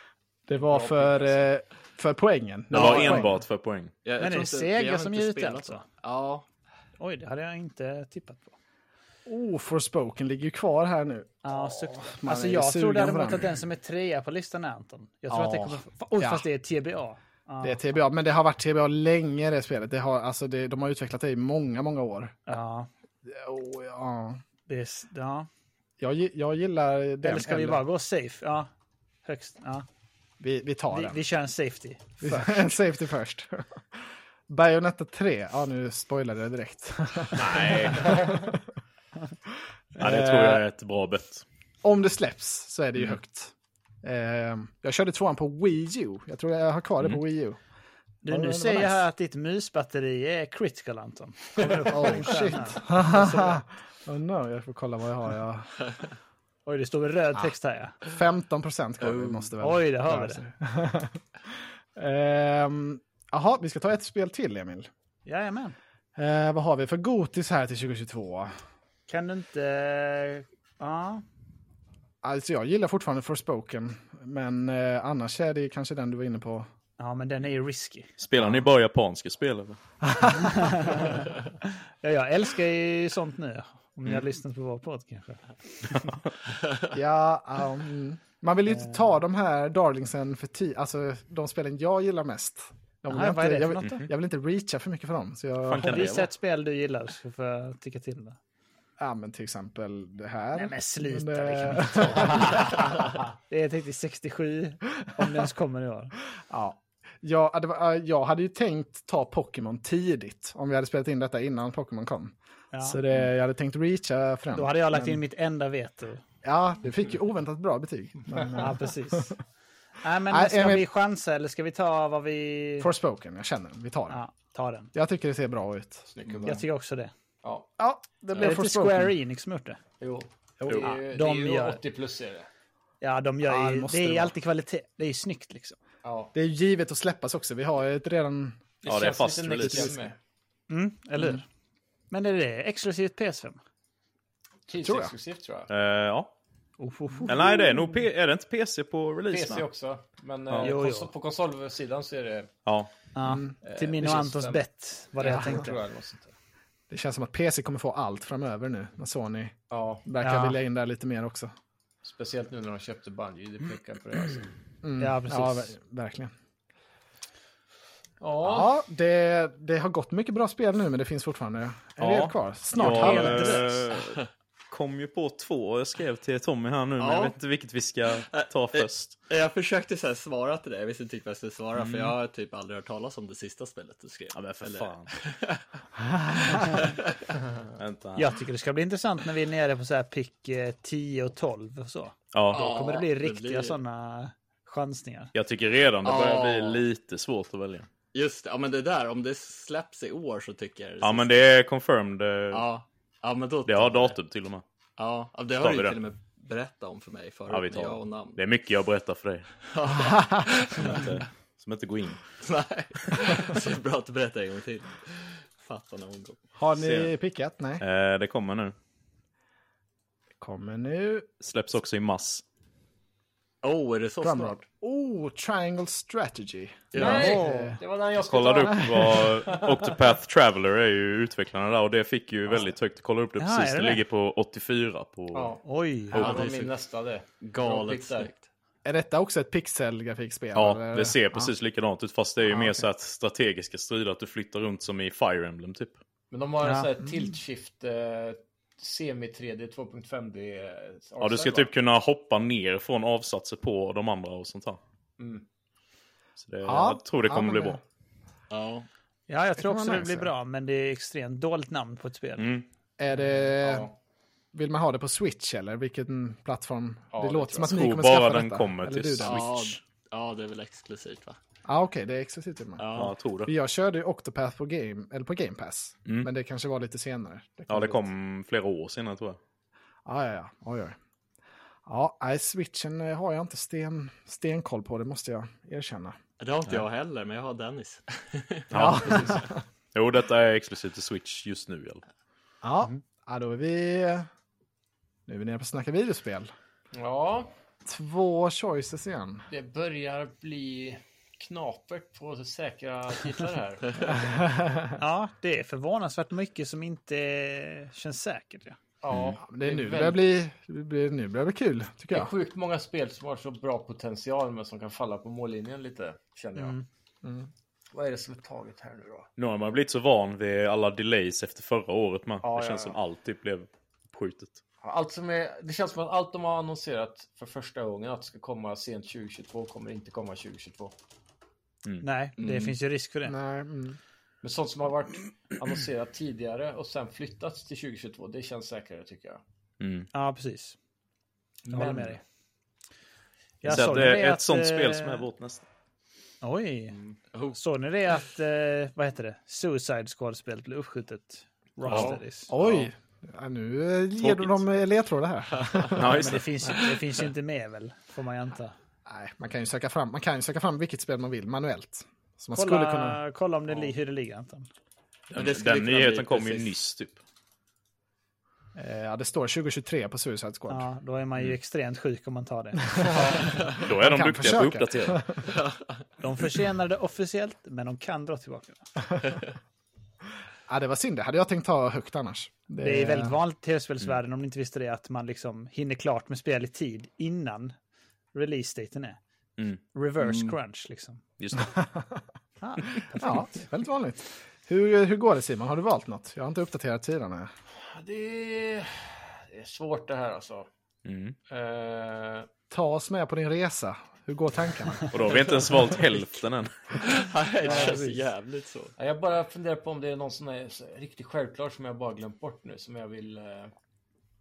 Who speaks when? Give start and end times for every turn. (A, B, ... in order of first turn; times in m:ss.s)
0:00.5-0:03.4 A
0:00.6-0:01.4 B
0:02.7-0:03.9 C
0:04.0-0:06.4 D
0:04.2-0:05.8 E
0:07.0-0:08.6 E
0:09.3-0:13.5 A
0:11.4-0:17.8 E
0:15.3-0:16.5 A
0:17.6-0:22.4 A
0:22.5-0:22.9 E
0:23.3-0:24.4 A
0:24.7-0:25.5 E
0:26.0-0:27.8 A
0:27.2-0:28.7 E
0:29.2-0:29.8 E
0:30.4-0:31.2 A
0:30.9-0:32.6 E
0:32.2-0:38.6 A
0:37.4-0:38.3 C
0:40.0-0:41.4 C
0:40.0-0:40.6 A
0:41.8-0:47.6 A
0:48.2-0:53.6 E
0:48.3-0:49.0 A
0:51.6-0:55.7 A
0:56.7-0:58.0 E
0:58.0-1:01.2 A
0:59.0-0:59.5 D
0:59.6-1:00.4 E
1:02.0-1:04.9 A
1:05.3-1:05.8 E
1:06.2-1:08.5 A
1:09.1-1:11.2 E
1:12.2-1:16.7 A
1:17.0-1:18.1 E
1:18.2-1:19.8 C
1:20.3-1:21.3 E
1:22.0-1:26.2 E
1:26.9-1:36.1 A
1:28.7-1:29.1 E
1:33.1-1:34.1 E
1:35.6-1:36.3 C
1:35.8-1:38.4 E
1:39.0-1:43.0 A
1:40.5-1:46.2 E
1:46.5-1:55.2 A
1:52.7-1:53.0 E
1:54.5-1:56.2 E
1:56.4-1:59.4 A
1:58.6-1:59.4 E
2:00.0-2:02.9 E
2:00.3-2:00.9 A
2:02.8-2:04.2 A
2:04.1-2:04.9 E
2:04.9-2:06.1 A
2:06.1-2:06.6 B
2:06.4-2:07.1 E
2:07.4-2:07.7 B
2:07.8-2:09.1 A
2:08.4-2:09.8 E
2:10.0-2:12.5 B
2:10.8-2:11.8 E
2:13.0-2:15.8 E
2:13.4-2:14.3 A
2:16.0-2:16.3 B
2:16.3-2:18.6 A
2:18.8-2:20.2 B
2:18.9-2:19.9 C
2:19.6-2:20.0 A
2:20.7-2:21.4 E
2:22.1-2:23.6 E
2:24.7-2:25.7 B
2:24.8-2:25.1 A
2:25.7-2:26.3 C
2:26.8-2:27.8 E
2:27.3-2:29.7 C
2:29.3-2:32.6 B
2:30.6-2:31.1 E
2:32.6-2:32.9 C
2:33.2-2:35.8 E
2:33.2-2:33.5 A
2:33.6-2:34.6 B
2:35.2-2:36.3 B
2:35.3-2:35.6 A
2:36.9-2:41.5 A
2:39.7-2:40.1 B
2:40.2-2:40.6 E
2:42.0-2:44.5 B
2:44.8-2:46.3 A
2:45.0-2:45.8 E
2:48.2-2:48.7 B
2:48.4-2:53.6 A
2:52.0-2:59.2 C
2:52.8-2:53.8 E
2:57.0-2:57.4 D
2:58.3-3:05.6 D
3:01.8-3:02.2 C
3:04.3-3:05.1 C
3:06.1-3:06.5 A
3:06.5-3:07.2 D
3:07.8-3:08.3 C
3:08.2-3:15.3 E
3:12.3-3:12.7 C
3:12.5-3:13.8 D
3:15.3-3:17.9 C
3:16.0-3:16.8 D
3:18.1-3:21.4 D
3:21.0-3:22.7 C
3:22.5-3:24.2 D
3:23.7-3:24.6 C
3:25.0-3:28.4 D
3:25.6-3:26.0 C
3:27.5-3:29.5 C
3:29.7-3:31.2 D
3:30.7-3:32.2 C
3:32.4-3:36.4 D
3:36.6-3:37.8 A
3:36.8-3:37.1 C
3:37.8-3:38.8 C
3:40.4-3:41.3 A
3:41.4-3:42.4 C
3:43.6-3:44.6 D
3:44.2-3:47.8 A
3:46.9-3:47.4 D
3:47.0-3:50.0 B
3:47.0-3:47.7 E
3:48.2-3:55.6 C
3:48.6-3:49.1 A
3:53.4-3:54.0 E
3:55.3-3:55.6 B
3:55.6-3:56.2 E
3:56.1-3:56.5 C
3:56.1-3:58.3 B
3:56.1-3:56.7 D
3:57.4-3:58.4 D
3:58.8-4:01.5 A
4:00.6-4:06.0 C
4:02.5-4:02.8 A
4:06.3-4:11.7 B
4:06.6-4:06.9 E
4:11.2-4:14.8 C
4:15.2-4:15.4 B
4:16.4-4:17.8 C
4:16.6-4:17.8 A
4:18.5-4:18.9 D
4:19.3-4:22.5 E
4:19.6-4:20.3 A
4:22.4-4:22.7 C
4:23.0-4:23.9 A
4:23.1-4:23.9 B
4:24.5-4:29.6 A
4:27.1-4:27.8 B
4:27.7-4:29.8 C
4:29.2-4:31.4 D
4:31.7-4:32.9 A
4:32.8-4:33.1 D
4:32.9-4:33.5 C
4:33.4-4:38.0 A
4:37.7-4:39.4 C
4:40.1-4:41.0 A
4:41.9-4:46.2 A
4:46.4-4:49.4 D
4:48.7-4:52.0 C
4:48.7-4:49.6 A
4:52.6-4:54.3 A
4:55.3-4:56.5 A
4:56.9-4:57.5 B
4:57.8-4:59.5 A
4:59.5-5:04.5 B
5:04.1-5:05.0 A
5:05.0-5:08.8 E
5:09.0-5:10.2 B
5:09.4-5:12.3 A
5:12.1-5:16.8 B
5:16.6-5:16.8 E
5:17.2-5:17.5 A
5:17.9-5:19.3 B
5:19.4-5:24.6 C
5:22.4-5:23.0 B
5:24.8-5:30.9 B
5:32.0-5:33.4 E
5:32.4-5:32.8 D
5:33.3-5:34.0 A
5:34.4-5:39.4 B
5:39.8-5:40.1 C
5:40.1-5:40.8 E
5:41.7-5:42.2 B
5:41.7-5:42.2 E
5:43.6-5:45.3 E
5:43.6-5:45.6 C
5:46.4-5:47.0 E
5:47.5-5:52.5 E
5:51.9-5:52.8 D
5:52.5-5:56.4 A
5:54.2-5:54.6 C
5:55.9-5:56.5 C
5:56.1-5:58.8 E
5:59.1-6:03.2 A
6:02.5-6:04.7 E
6:05.3-6:06.7 D
6:05.3-6:07.2 C
6:08.8-6:10.9 A
6:10.7-6:13.4 E
6:13.0-6:13.5 B
6:13.8-6:15.3 C
6:13.9-6:15.4 A
6:15.5-6:16.0 D
6:16.2-6:18.9 E
6:20.7-6:23.4 A
6:22.8-6:27.8 E
6:28.3-6:29.2 E
6:29.9-6:31.2 E
6:30.2-6:30.5 D
6:31.4-6:31.8 C
6:31.6-6:32.2 A
6:32.6-6:33.7 E
6:33.1-6:37.5 A
6:37.9-6:40.7 B
6:41.0-6:41.4 C
6:41.5-6:42.5 B
6:42.7-6:45.1 A
6:45.1-6:47.1 C
6:47.0-6:49.0 D
6:47.6-6:48.2 E
6:47.7-6:48.0 B
6:49.0-6:53.7 B